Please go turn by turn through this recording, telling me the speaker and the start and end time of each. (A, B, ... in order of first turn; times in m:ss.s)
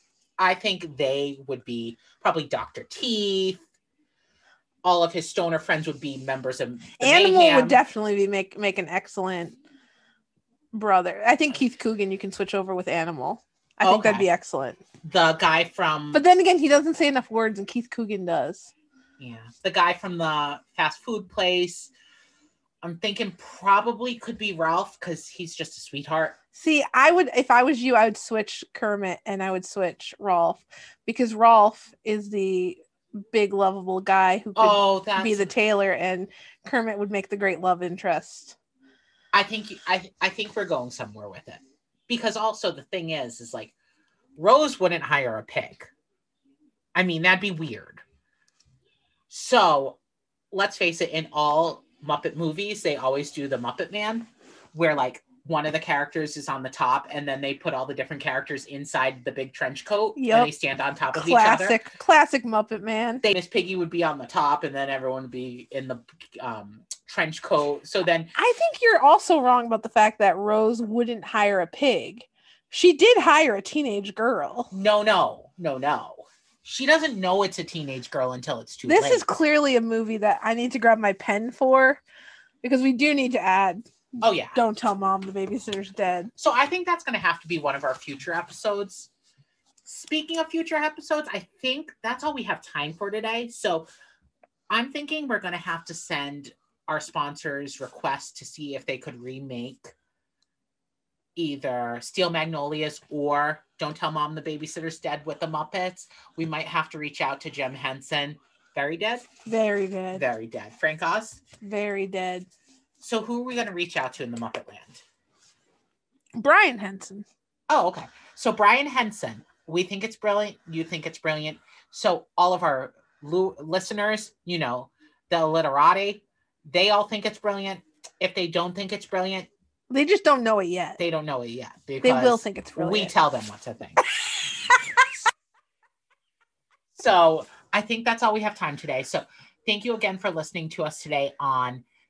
0:00.4-0:03.6 A
0:04.8-0:07.8 A
0:07.0-0:09.6 B
0:10.7-0:14.8 B
0:13.8-0:14.3 A
0:15.0-0:16.2 A
0:16.1-0:18.7 B
0:19.2-0:21.9 A
0:22.8-0:26.4 A
0:26.6-0:38.6 B
0:34.6-0:35.5 A
0:39.3-0:43.7 A
0:44.4-0:45.9 A
0:47.0-0:48.0 A
0:49.3-0:50.0 A
0:50.5-1:01.8 A
1:00.2-1:00.5 B
1:01.1-1:03.2 B
1:03.2-1:08.3 A
1:08.4-1:14.7 B
1:14.7-1:19.2 A
1:18.9-1:22.0 B
1:22.6-1:23.8 B
1:24.2-1:24.6 A
1:24.5-1:26.3 B
1:26.4-1:29.1 A
1:29.8-1:33.9 A
1:34.7-1:39.9 A
1:41.4-1:49.3 A
1:49.5-1:50.2 B
1:50.1-1:51.4 A
1:51.6-1:52.5 B
1:53.0-1:55.0 A
1:56.4-1:57.3 B
1:57.7-2:09.5 A
2:09.9-2:11.0 B
2:11.0-2:14.0 A
2:12.0-2:13.1 B
2:14.4-2:14.9 B
2:17.0-2:21.8 A